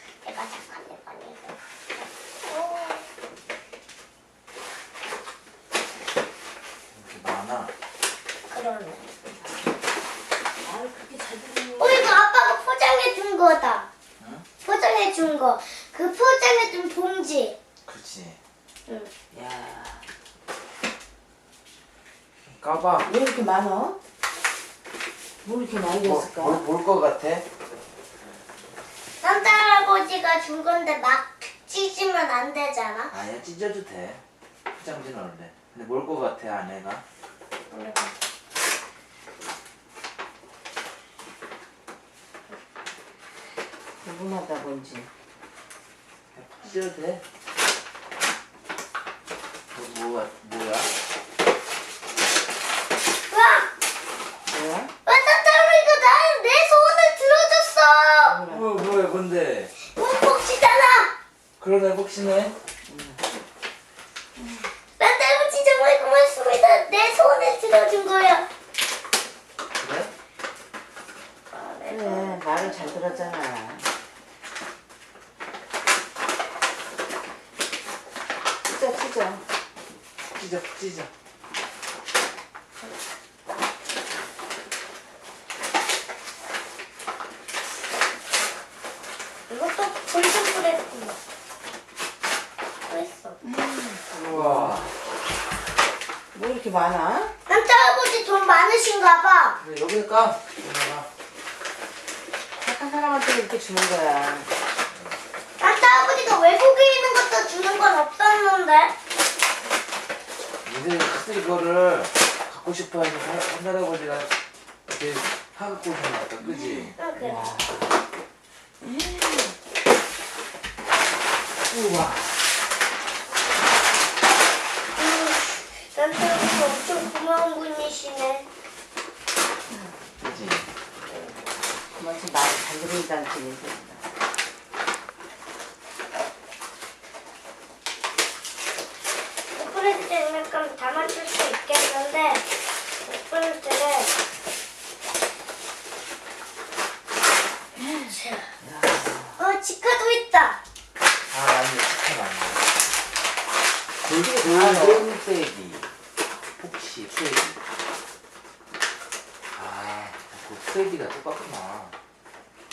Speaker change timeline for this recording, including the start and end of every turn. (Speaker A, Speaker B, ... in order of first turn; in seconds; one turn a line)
Speaker A: 0.2-1.6
Speaker A: 2.5-3.0
Speaker B: 6.9-7.7
Speaker A: 8.5-9.0
Speaker C: 10.6-12.2
Speaker A: 11.8-13.9
Speaker B: 14.2-14.4
Speaker A: 14.6-17.6
Speaker B: 17.9-18.4
Speaker C: 19.3-20.0
Speaker B: 22.5-23.1
Speaker C: 23.0-24.0
Speaker C: 25.4-26.6
Speaker B: 25.9-27.4
Speaker A: 29.2-33.2
Speaker B: 33.1-34.2
Speaker B: 34.8-37.0
Speaker A: 37.7-38.1
Speaker C: 44.0-45.1
Speaker B: 46.3-47.2
Speaker B: 49.7-50.9
Speaker A: 53.3-53.7
Speaker C: 54.5-54.9
Speaker A: 55.0-58.4
Speaker C: 58.2-58.7
Speaker B: 58.4-59.7
Speaker A: 59.8-61.1
Speaker B: 61.6-62.5
Speaker C: 62.9-63.2
Speaker A: 65.0-68.5
Speaker B: 69.8-70.1
Speaker A: 71.5-73.3
Speaker C: 71.8-73.9
Speaker C: 78.6-79.4
Speaker B: 80.3-81.1
Speaker A: 89.5-91.2
Speaker A: 92.9-93.4
Speaker C: 93.4-94.9
Speaker B: 94.1-94.9
Speaker C: 96.3-97.3
Speaker A: 97.5-99.6
Speaker B: 99.6-101.1
Speaker C: 102.6-104.5
Speaker A: 105.6-108.9
Speaker B: 110.6-114.4
Speaker B: 114.9-117.0
Speaker C: 116.4-117.9
Speaker A: 116.9-117.5
Speaker C: 118.8-119.5
Speaker B: 121.7-122.4
Speaker A: 124.9-128.5
Speaker B: 130.2-130.7
Speaker C: 131.9-134.1
Speaker A: 139.5-142.4
Speaker A: 143.0-144.1
Speaker C: 147.8-149.4
Speaker A: 148.1-148.5
Speaker A: 149.4-150.6
Speaker B: 151.3-152.7
Speaker B: 154.0-155.9
Speaker C: 154.1-155.1
Speaker B: 156.5-157.6
Speaker B: 159.5-161.9